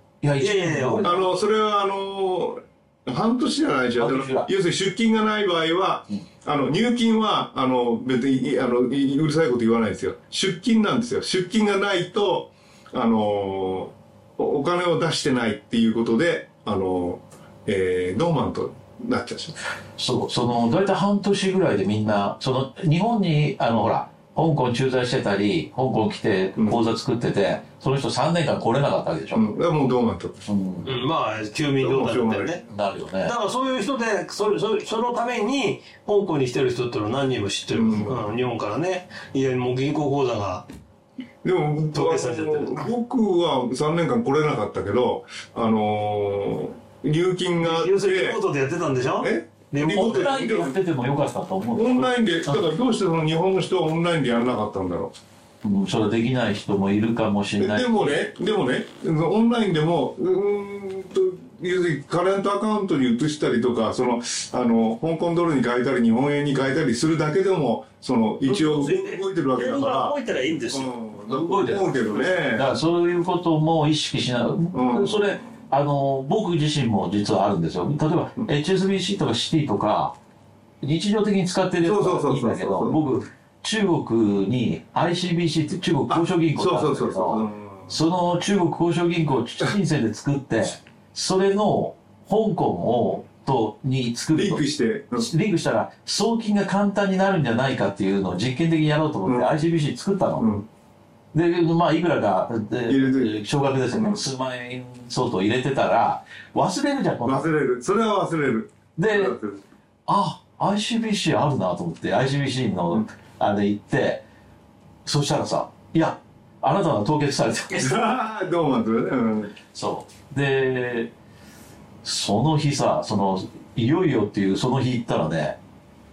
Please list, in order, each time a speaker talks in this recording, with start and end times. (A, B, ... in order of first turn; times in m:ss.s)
0:00.2-0:01.2 A
0:00.4-0:01.2 B
0:01.0-0:19.5 C
0:04.0-0:04.5 A
0:20.0-0:29.5 A
0:29.3-0:30.4 C
0:30.5-0:30.9 A
0:30.8-0:32.6 B
0:31.8-0:32.6 C
0:32.7-0:33.3 A
0:33.2-0:40.6 B
0:37.7-0:38.2 C
0:41.4-0:48.4 C
0:41.9-0:42.9 B
0:47.6-0:50.5 B
0:49.2-0:50.8 C
0:49.9-0:52.1 A
0:51.7-0:55.1 C
0:55.6-0:58.2 A
0:57.6-1:10.2 C
1:08.4-1:10.9 B
1:10.7-1:12.7 C
1:11.3-1:20.2 A
1:14.7-1:15.3 C
1:20.8-1:34.6 A
1:21.8-1:23.0 C
1:26.1-1:27.9 C
1:34.4-1:35.3 C
1:35.1-1:40.5 A
1:39.2-1:39.5 C
1:40.4-1:40.6 C
1:41.3-1:47.5 A
1:42.9-1:43.4 C
1:43.9-1:44.2 C
1:47.2-1:49.6 C
1:49.0-1:49.4 A
1:50.1-1:54.2 A
1:55.0-1:58.1 A
1:57.7-1:59.5 C
1:59.7-2:01.1 A
2:02.0-2:05.6 A